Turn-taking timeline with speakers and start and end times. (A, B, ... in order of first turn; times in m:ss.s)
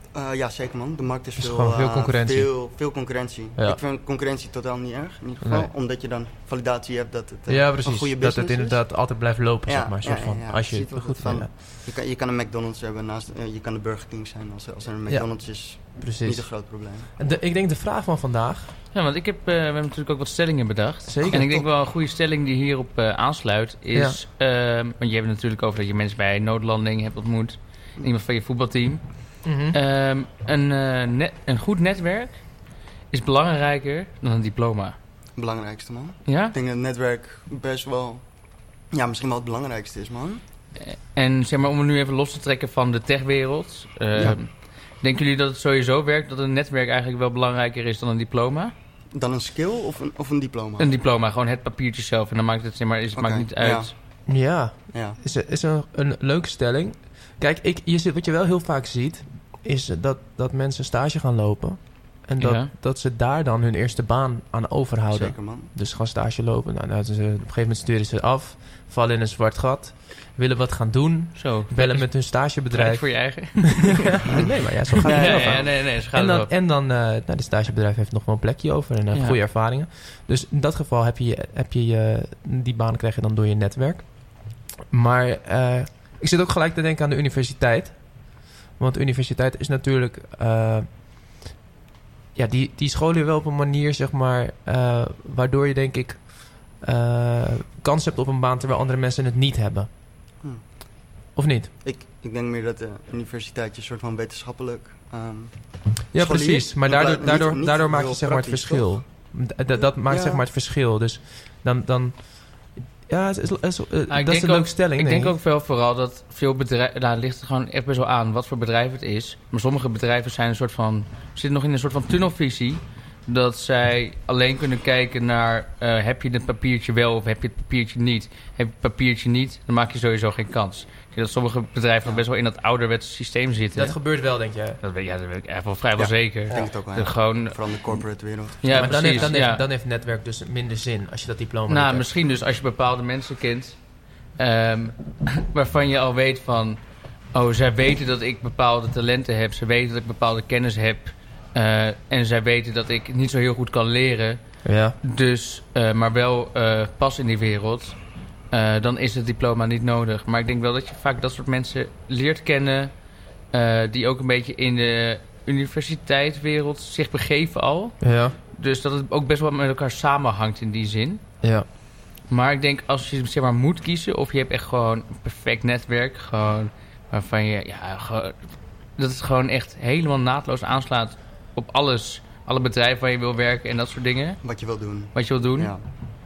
0:00.1-0:17.1 A
0:01.4-0:02.5 B
0:05.4-0:05.7 B
0:07.5-0:11.5 B
0:15.9-0:16.5 B
0:17.2-0:18.7 B
0:18.9-0:29.0 C
0:21.1-0:21.6 B
0:23.9-0:24.2 B
0:29.4-0:29.8 B
0:29.7-0:32.5 C
0:33.1-0:34.9 C
0:35.4-0:38.2 A
0:36.2-0:36.5 C
0:38.9-0:40.4 A
0:40.8-0:48.7 C
0:49.1-0:50.9 A
0:50.8-0:53.9 C
0:53.2-0:53.9 A
0:54.3-1:30.9 B
0:54.9-0:55.2 A
1:02.4-1:02.7 C
1:05.1-1:05.7 A
1:11.4-1:16.5 C
1:14.3-1:15.8 A
1:19.1-1:19.4 C
1:32.3-1:39.9 B
1:41.3-1:41.7 B
1:41.8-1:49.0 A
1:46.1-1:55.3 B
1:50.0-1:50.4 A
1:54.1-2:14.0 C
2:13.7-2:14.8 B
2:14.8-2:17.6 C
2:16.0-2:19.4 A
2:18.6-2:19.6 C
2:18.7-2:22.0 B
2:21.7-2:34.4 C
2:34.6-2:35.0 B
2:35.0-2:38.0 C
2:38.5-2:43.0 C
2:43.5-2:51.2 C
2:48.0-2:48.4 B
2:52.3-2:58.4 C
2:59.0-3:04.4 C
3:04.4-3:05.8 A
3:05.1-3:05.7 C